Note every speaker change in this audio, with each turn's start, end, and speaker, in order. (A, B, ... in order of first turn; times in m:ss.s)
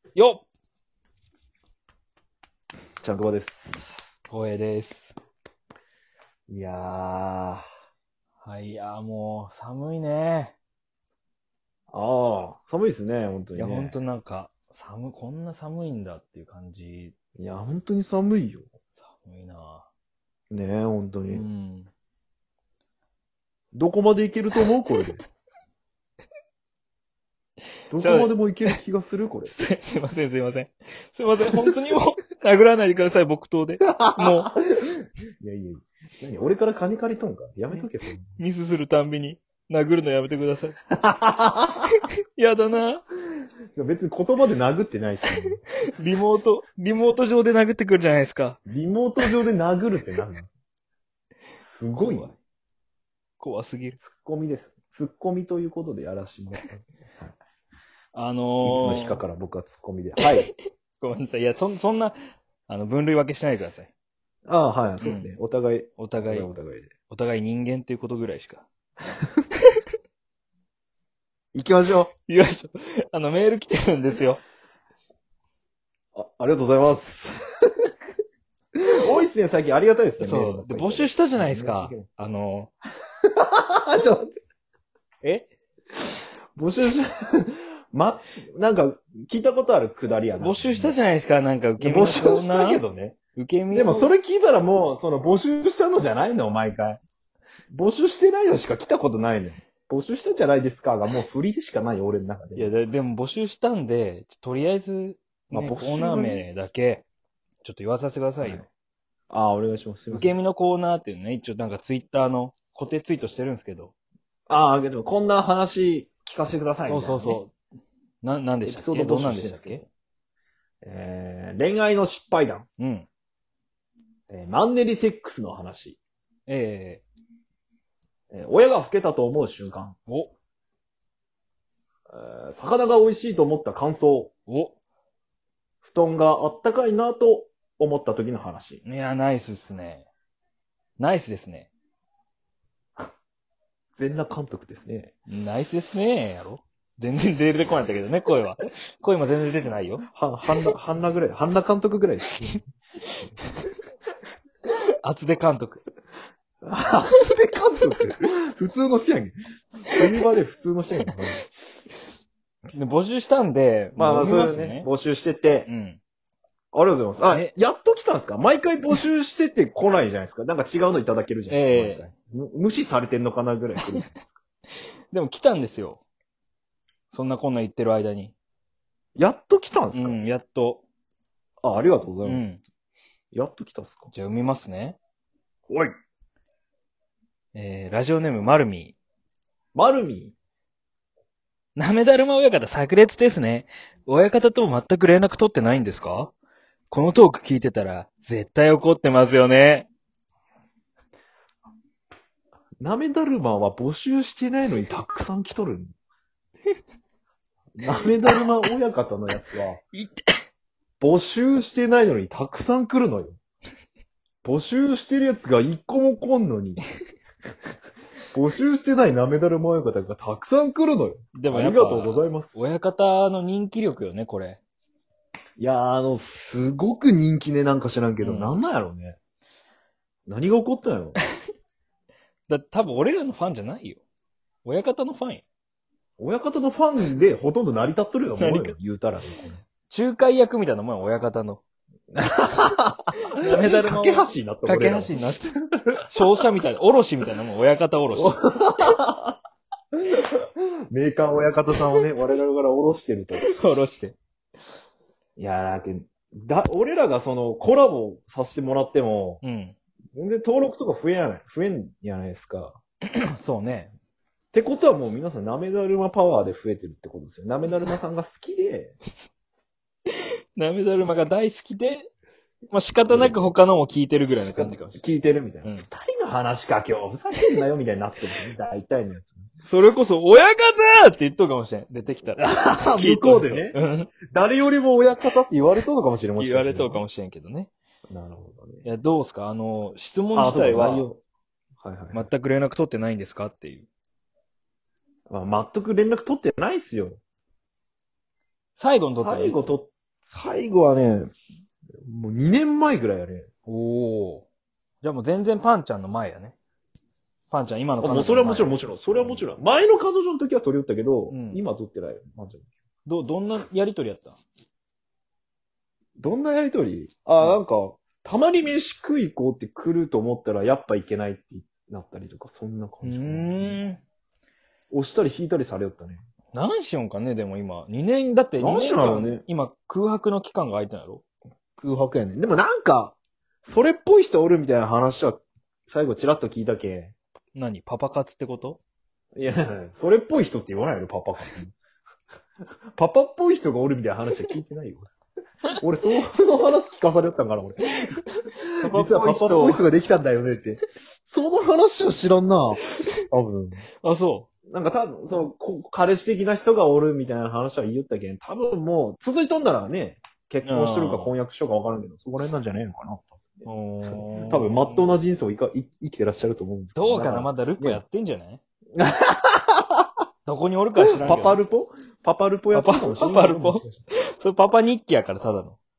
0:00.2-0:00.4 A
0:03.0-0:03.8 B
0:04.3-0:05.1 A
0:06.5-0:07.6 B
0:08.4-0:10.5 A
0:11.9-0:14.0 B
0:13.5-0:17.1 A
0:17.4-0:18.7 B
0:19.1-0:19.9 A
0:20.5-0:21.4 B
0:21.3-0:21.9 A
0:23.7-0:25.2 B
0:27.9-0:29.5 B
0:28.0-0:28.7 A
0:29.5-0:34.5 A
0:33.8-0:38.4 B
0:38.4-0:40.8 A
0:40.9-0:41.9 B
0:41.9-0:43.0 A
0:43.8-0:45.6 B
0:45.9-0:48.6 A
0:48.7-0:50.5 B
0:51.6-0:52.3 B
0:51.9-0:52.4 A
0:53.4-0:54.0 A
0:54.0-0:57.3 B
0:58.1-0:59.2 A
0:58.6-1:00.5 B
1:00.5-1:02.2 A
1:02.7-1:03.9 A
1:04.4-1:06.9 B
1:05.0-1:05.3 A
1:06.0-1:06.5 A
1:07.1-1:08.7 A
1:11.5-1:12.1 B
1:12.3-1:14.4 A
1:16.1-1:17.9 B
1:18.8-1:22.1 B
1:20.2-1:22.7 A
1:23.4-1:24.3 B
1:25.2-1:25.5 A
1:26.6-1:31.0 B
1:30.4-1:32.8 A
1:31.8-1:33.2 B
1:33.4-1:34.1 A
1:33.7-1:37.0 B
1:37.7-1:42.7 B
1:42.6-1:47.0 A
1:45.5-1:46.4 B
1:47.6-1:48.7 A
1:48.4-1:48.7 B
1:49.3-1:50.4 B
1:50.1-1:53.9 A
1:54.5-1:57.4 B
1:56.8-1:57.5 A
1:58.2-1:59.8 A
1:58.6-1:59.9 B
2:00.8-2:02.7 B
2:02.8-2:03.1 A
2:04.3-2:06.0 B
2:06.5-2:07.0 A
2:08.3-2:10.0 B
2:10.1-2:10.3 A
2:12.1-2:14.3 B
2:14.5-2:14.8 A
2:15.8-2:18.8 B
2:18.8-2:20.1 A
2:21.0-2:21.7 A
2:24.0-2:25.1 B
2:25.3-2:30.0 A
2:30.1-2:32.6 B
2:35.0-2:35.8 A
2:36.6-2:39.3 B
2:39.9-2:41.4 B
2:42.7-2:44.9 A
2:44.0-2:45.7 B
2:45.7-2:46.0 A
2:46.7-2:54.3 B
2:51.5-2:52.1 A
2:53.8-2:54.1 A
2:55.1-2:56.0 A
2:57.1-2:58.3 A
2:59.2-3:00.2 B
2:59.9-3:00.8 A
3:01.6-3:02.5 B
3:02.2-3:02.6 A
3:03.3-3:04.1 B
3:04.1-3:05.0 A
3:07.6-3:09.0 A
3:09.8-3:10.3 B
3:11.8-3:16.3 A
3:16.9-3:19.9 A
3:22.8-3:25.9 B
3:27.8-3:29.8 B
3:29.9-3:30.2 A
3:31.0-3:33.4 B
3:34.4-3:36.8 B
3:38.3-3:42.5 B
3:41.3-3:44.6 A
3:45.6-3:49.2 B
3:48.2-3:48.6 A
3:50.3-3:51.2 B
3:52.5-3:54.0 A
3:54.6-3:55.4 A
3:56.2-3:59.6 B
3:58.4-3:58.7 A
3:59.8-4:01.6 A
4:02.1-4:05.1 B
4:03.3-4:05.6 A
4:06.1-4:08.4 A
4:08.1-4:09.4 B
4:10.0-4:13.5 B
4:13.4-4:14.2 A
4:15.4-4:19.4 B
4:19.4-4:19.8 A
4:20.1-4:22.8 B
4:23.1-4:23.9 A
4:24.5-4:29.0 B
4:30.1-4:32.1 A
4:32.7-4:35.0 A
4:33.1-4:33.5 B
4:34.3-4:39.5 B
4:39.6-4:44.1 A
4:42.4-4:43.8 B
4:44.3-4:47.0 B
4:46.4-4:47.7 A
4:48.1-4:48.8 B
4:48.8-4:51.1 A
4:50.3-4:51.2 B
4:51.8-4:52.3 B
4:52.1-4:53.9 A
4:55.3-4:57.2 B
4:58.8-4:59.7 A
4:59.1-5:01.3 B
5:02.0-5:03.5 B
5:03.6-5:04.4 A
5:05.0-5:06.5 A
5:07.5-5:08.7 A
5:08.0-5:12.7 B
5:11.3-5:11.6 A
5:13.1-5:14.4 A
5:16.2-5:23.8 B
5:23.0-5:24.0 A
5:24.9-5:26.2 B
5:26.5-5:31.2 A
5:28.6-5:29.4 B
5:31.8-5:37.1 B
5:37.5-5:38.8 A
5:39.3-5:41.8 B
5:43.0-5:45.1 B
5:45.8-5:48.2 B
5:48.8-5:49.8 A
5:48.9-5:53.9 B
5:54.0-5:54.5 A
5:54.7-6:08.0 B
6:00.6-6:01.3 A
6:03.6-6:05.1 A
6:06.9-6:08.6 A
6:09.0-6:10.0 B
6:10.4-6:11.6 A
6:11.0-6:14.0 B
6:12.7-6:15.8 A